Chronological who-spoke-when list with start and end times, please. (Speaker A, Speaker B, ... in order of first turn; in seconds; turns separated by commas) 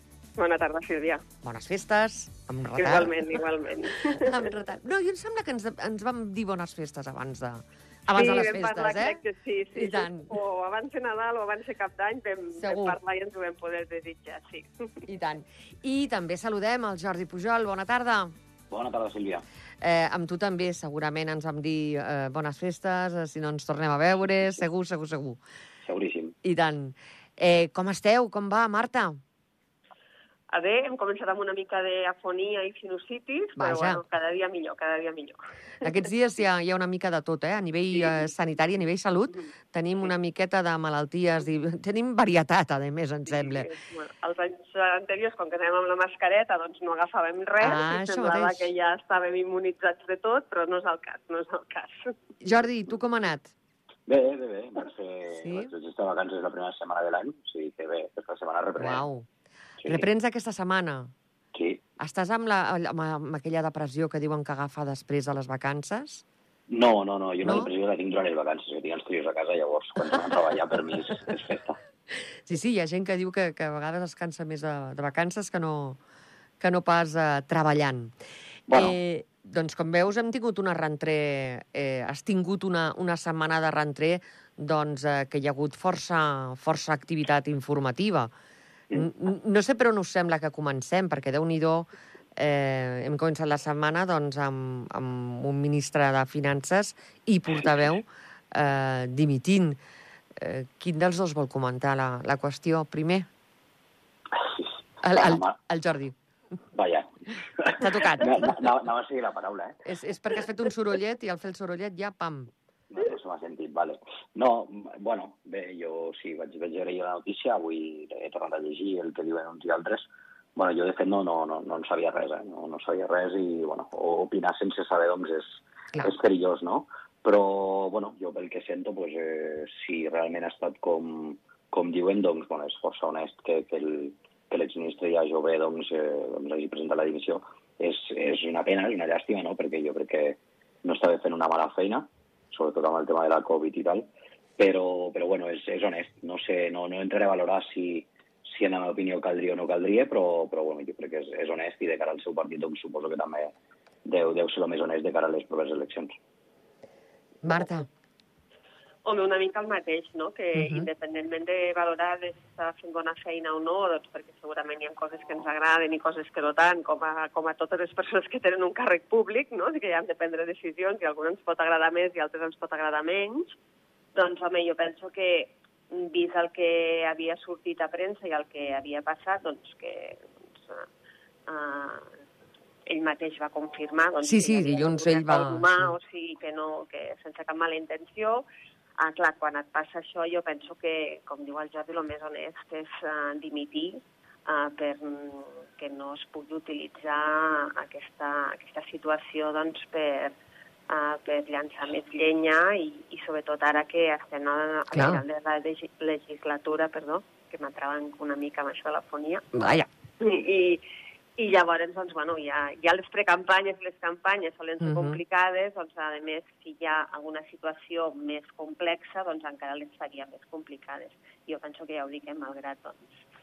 Speaker A: 0.4-1.2, Speaker B: 1.4-3.4, Speaker A: 2.7-4.5, Speaker B: 4.1-9.2, Speaker A: 8.1-15.1, Speaker B: 9.7-10.3, Speaker B: 12.6-13.0, Speaker B: 15.1-18.3, Speaker C: 18.7-19.4, Speaker B: 19.8-25.4, Speaker C: 25.8-26.3, Speaker B: 26.4-29.2, Speaker A: 30.5-35.9, Speaker B: 33.6-34.0, Speaker B: 35.8-43.7, Speaker A: 43.2-52.1, Speaker B: 47.6-48.7, Speaker B: 52.4-53.5, Speaker C: 54.1-59.0, Speaker B: 55.4-55.7, Speaker B: 58.8-59.3, Speaker C: 59.8-60.1, Speaker B: 59.8-61.1, Speaker C: 61.5-61.8, Speaker B: 62.0-66.2, Speaker C: 66.7-71.8, Speaker B: 67.4-67.7, Speaker B: 72.1-76.0, Speaker B: 76.6-78.1, Speaker C: 78.7-79.0, Speaker B: 78.7-88.3, Speaker B: 88.9-99.8, Speaker B: 100.3-103.3, Speaker C: 104.4-105.5, Speaker B: 105.0-106.2, Speaker C: 106.7-109.8, Speaker B: 107.8-108.5, Speaker B: 109.8-112.5, Speaker C: 112.9-153.5, Speaker C: 154.0-156.2, Speaker B: 157.4-157.9, Speaker A: 159.0-173.5, Speaker B: 160.5-160.9, Speaker A: 174.1-180.9, Speaker A: 181.5-182.1, Speaker A: 182.9-188.4, Speaker B: 184.2-185.9, Speaker A: 189.0-200.3, Speaker A: 200.9-209.6, Speaker B: 204.9-205.2, Speaker B: 209.5-209.9, Speaker A: 210.2-210.8, Speaker A: 211.4-223.1, Speaker B: 214.8-215.2